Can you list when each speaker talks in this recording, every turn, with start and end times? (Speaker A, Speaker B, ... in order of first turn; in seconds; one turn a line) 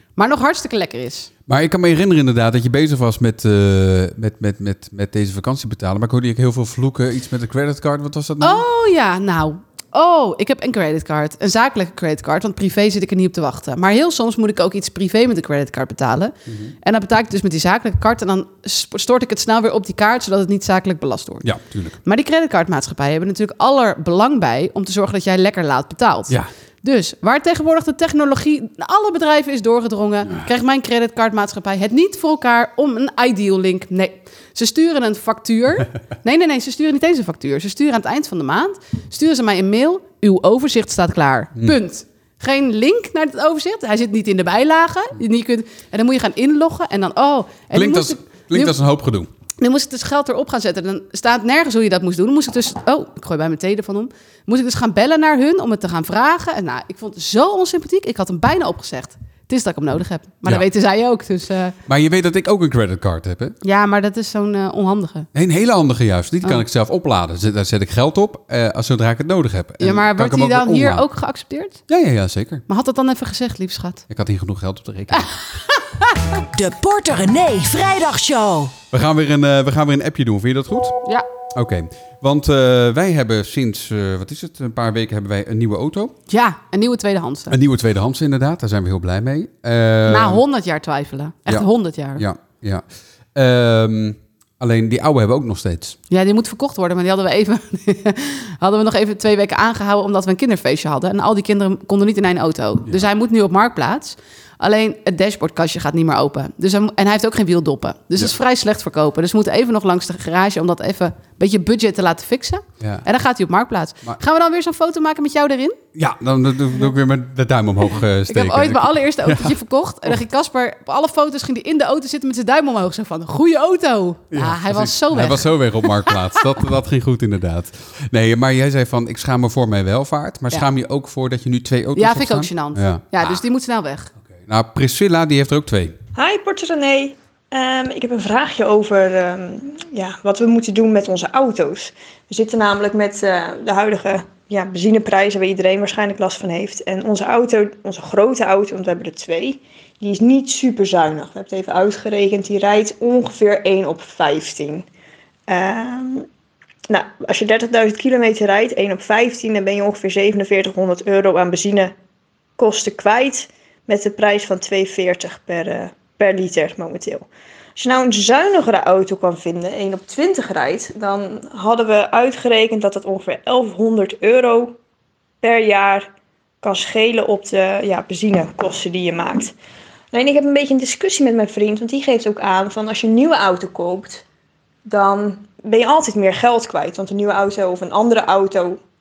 Speaker A: 0.2-1.3
Speaker B: 1.5-8.6
Speaker A: 8.4-21.4
Speaker B: 21.4-21.9
Speaker A: 22.0-48.8
Speaker B: 47.7-49.3
Speaker A: 49.6-61.7
Speaker B: 61.9-63.5
Speaker A: 63.6-65.3
Speaker B: 65.3-71.0
Speaker A: 69.8-71.8
Speaker B: 71.9-72.6
Speaker A: 72.7-74.0
Speaker B: 74.1-75.4
Speaker A: 75.1-76.2
Speaker C: 76.5-78.7
Speaker B: 78.9-81.0
Speaker B: 81.5-86.1
Speaker A: 86.3-87.5
Speaker B: 87.5-90.4
Speaker A: 90.1-92.2
Speaker B: 91.5-96.0
Speaker A: 96.1-115.8
Speaker B: 115.9-119.5
Speaker A: 118.3-126.2
Speaker B: 124.3-133.4
Speaker A: 131.9-134.1
Speaker B: 134.3-135.9
Speaker D: 136.1-154.9
Speaker D: 155.5-156.3
Speaker D: 156.9-161.9
Speaker D: 162.6-174.8
Speaker D: 175.4-176.1
Speaker D: 176.6-179.5
Speaker D: 180.1-184.2
Speaker D: 184.8-188.8